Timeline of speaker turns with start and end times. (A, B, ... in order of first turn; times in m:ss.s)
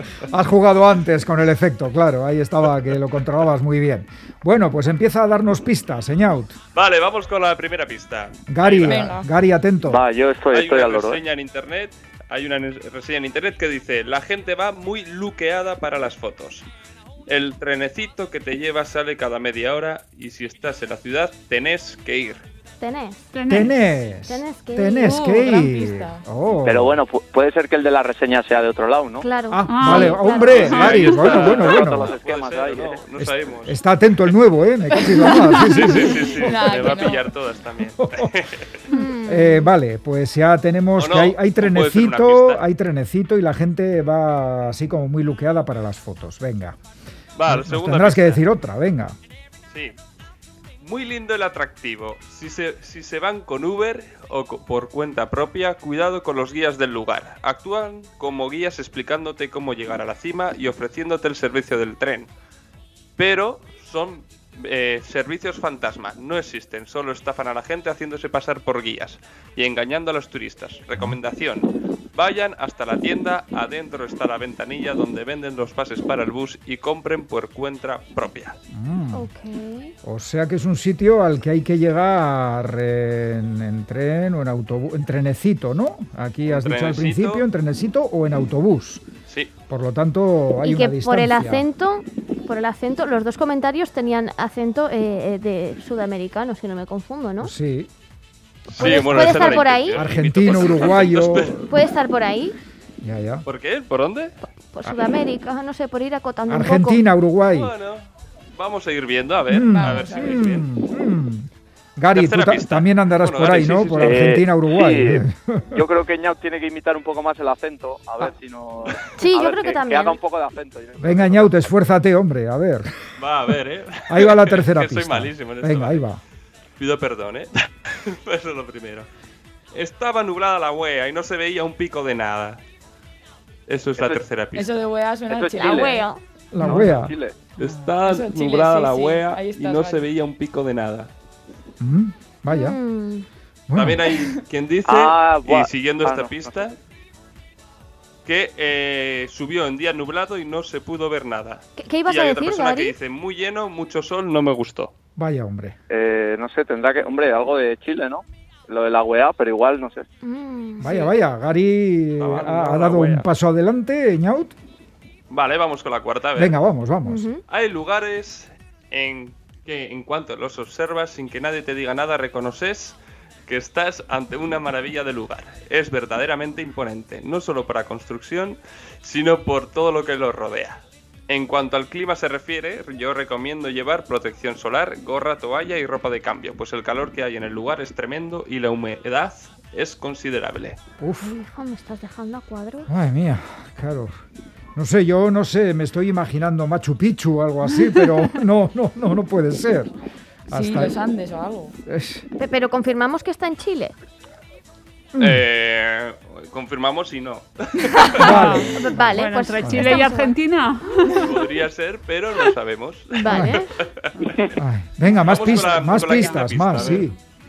0:00.2-0:06.6 A
0:06.8-0:09.1 B
0:08.5-0:10.0 A
0:08.8-0:09.3 C
0:09.9-0:11.2 D
0:10.5-0:16.7 B
0:17.3-0:22.4 B
0:22.8-0:23.3 E
0:23.3-0:23.8 F
0:23.5-0:27.0 A
0:24.1-0:25.2 E
0:25.0-0:25.3 F
0:25.2-0:26.3 C
0:26.6-0:29.3 D
0:29.2-0:30.7 E
0:29.5-0:32.1 A
0:29.7-0:31.3 F
0:30.4-0:34.3 B
0:31.0-0:33.0 D
0:33.2-0:36.5 A
0:35.6-0:38.8 B
0:36.4-0:37.3 C
0:38.0-0:38.4 A
0:38.9-0:39.7 E
0:39.3-0:46.8 A
0:41.0-0:42.7 B
0:47.4-0:48.4 B
0:47.5-0:49.2 A
0:49.7-0:50.0 B
0:50.8-1:02.3 B
1:03.2-1:18.6 B
1:18.7-1:19.3 A
1:19.1-1:19.9 E
1:20.0-1:29.0 A
1:26.5-1:27.4 B
1:29.7-1:31.7 A
1:30.6-1:37.5 E
1:37.4-1:37.9 A
1:38.7-1:41.7 B
1:38.8-1:41.9 A
1:38.8-1:40.0 E
1:41.7-1:42.6 E
1:43.0-1:43.5 A
1:43.4-1:44.3 B
1:44.7-1:47.0 E
1:46.5-1:47.7 A
1:47.5-1:50.6 B
1:49.5-1:55.8 A
1:49.7-1:50.4 C
1:52.1-1:54.3 B
1:54.0-2:01.7 D
1:59.2-2:00.2 E
2:01.0-2:02.9 A
2:03.2-2:06.0 B
2:04.1-2:06.2 A
2:06.8-2:09.1 B
2:09.7-2:12.6 B
2:13.7-2:14.8 B
2:14.0-2:14.2 D
2:14.5-2:16.1 C
2:15.3-2:15.9 D
2:15.6-2:16.2 E
2:16.5-2:17.1 A
2:16.6-2:17.4 D
2:16.6-2:21.1 B
2:18.0-2:20.1 C
2:21.8-2:22.8 A
2:22.5-2:23.3 E
2:23.7-2:24.2 A
2:23.7-2:26.8 B
2:24.9-2:26.7 D
2:28.2-2:34.9 B
2:31.8-2:33.0 E
2:35.2-2:35.8 A
2:35.9-2:40.1 D
2:40.2-2:41.1 E
2:40.8-2:44.5 A
2:42.2-2:43.3 B
2:45.3-2:46.6 B
2:46.4-2:47.3 A
2:47.0-2:47.4 E
2:47.5-3:10.8 B
3:11.0-3:11.4 A
3:11.2-3:12.9 E
3:12.9-3:14.1 A
3:14.8-3:19.9 A
3:20.5-3:21.8 C
3:20.5-3:21.0 A
3:21.9-3:22.3 A
3:22.4-3:24.0 E
3:25.2-3:25.4 A
3:25.2-3:28.6 B
3:28.2-3:30.0 A
3:28.3-3:28.6 F
3:28.5-3:30.4 E
3:29.2-3:31.3 F
3:31.2-3:34.5 B
3:33.2-3:33.7 E
3:33.3-3:33.6 A
3:34.6-3:37.2 A
3:35.2-3:37.1 B
3:36.0-3:36.4 F